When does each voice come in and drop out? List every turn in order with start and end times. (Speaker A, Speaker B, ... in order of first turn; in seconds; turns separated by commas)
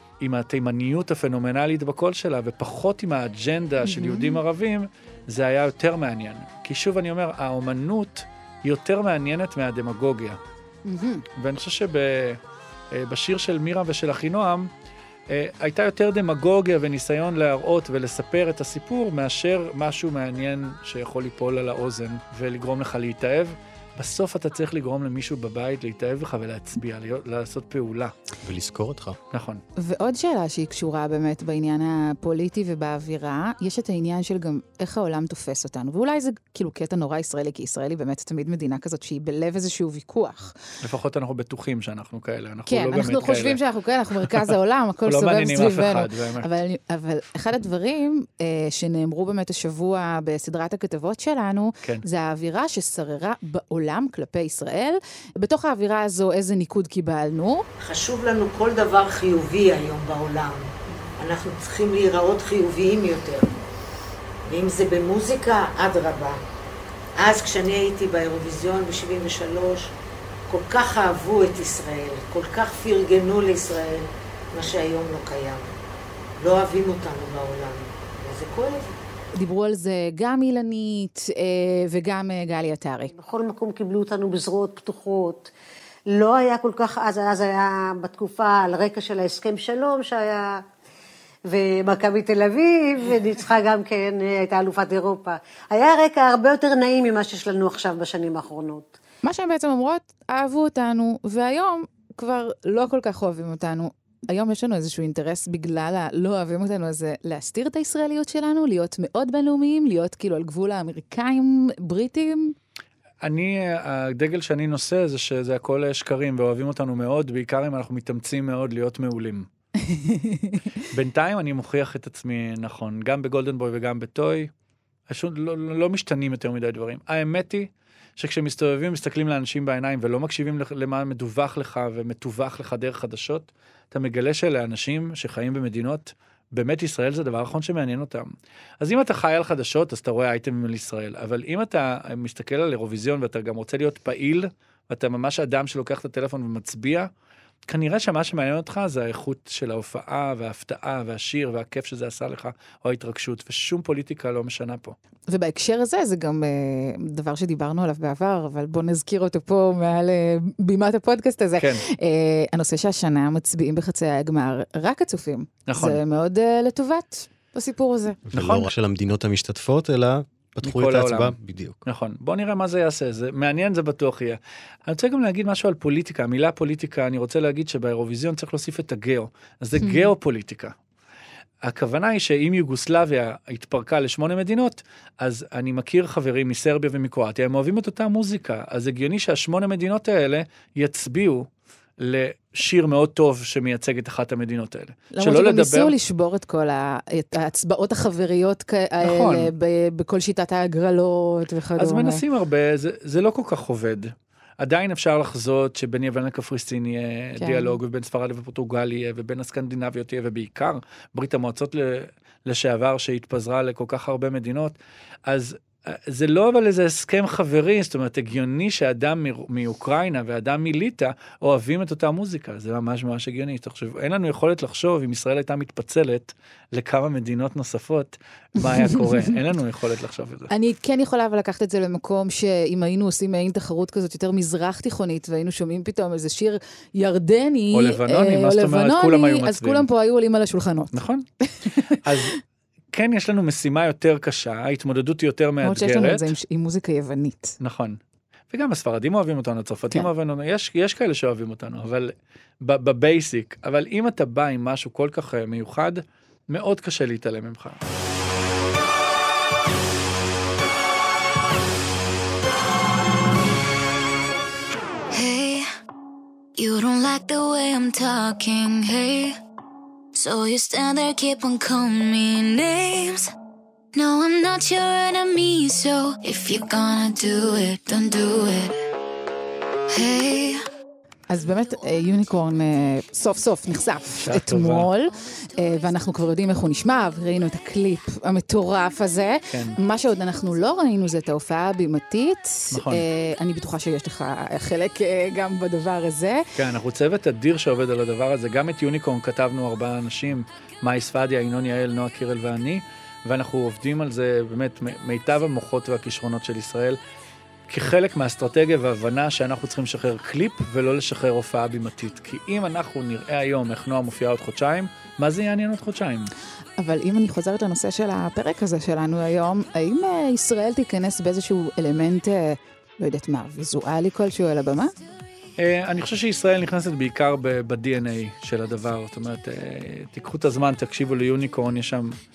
Speaker A: 0.2-10.4, Speaker B: 3.8-4.4, Speaker B: 10.9-11.2, Speaker A: 11.4-12.4, Speaker A: 12.9-14.7, Speaker A: 15.3-28.1, Speaker C: 28.4-29.2, Speaker A: 29.3-29.6, Speaker B: 29.8-40.5, Speaker A: 40.8-43.6, Speaker B: 42.7-57.6, Speaker A: 44.2-44.5, Speaker A: 45.0-46.5, Speaker D: 57.8-63.6, Speaker D: 64.5-66.4, Speaker D: 67.2-69.9, Speaker D: 70.5-75.7, Speaker D: 76.4-78.9, Speaker B: 79.3-83.1, Speaker E: 83.1-85.5, Speaker E: 86.1-90.6, Speaker E: 91.5-99.0, Speaker B: 99.2-112.5, Speaker A: 113.2-119.5, Speaker B: 119.8-120.6, Speaker A: 120.9-124.5, Speaker A: 125.1-147.1, Speaker A: 147.7-154.9, Speaker B: 155.3-168.2, Speaker A: 161.6-161.8, Speaker A: 165.7-166.0, Speaker C: 168.3-171.8, Speaker A: 168.3-168.7, Speaker A: 170.6-171.3, Speaker A: 171.8-180.7, Speaker B: 179.8-180.1, Speaker A: 181.6-191.5, Speaker A: 192.0-195.9, Speaker B: 195.1-202.2, Speaker A: 199.0-199.5, Speaker A: 201.8-214.8, Speaker B: 207.4-207.8, Speaker A: 215.3-230.5, Speaker B: 230.5-241.9, Speaker A: 237.7-239.8, Speaker A: 240.9-241.2, Speaker A: 241.8-242.4, Speaker A: 242.9-246.3, Speaker B: 245.6-247.6, Speaker A: 247.6-248.0, Speaker A: 248.5-257.8, Speaker F: 265.1-265.7, Speaker F: 266.6-269.4, Speaker F: 270.1-273.3, Speaker F: 273.9-278.8, Speaker F: 279.9-280.6, Speaker B: 281.3-296.4, Speaker A: 284.2-284.9, Speaker A: 289.5-289.8, Speaker A: 292.7-293.0, Speaker A: 296.6-307.0, Speaker A: 307.7-316.3, Speaker B: 316.8-324.9, Speaker A: 325.6-332.1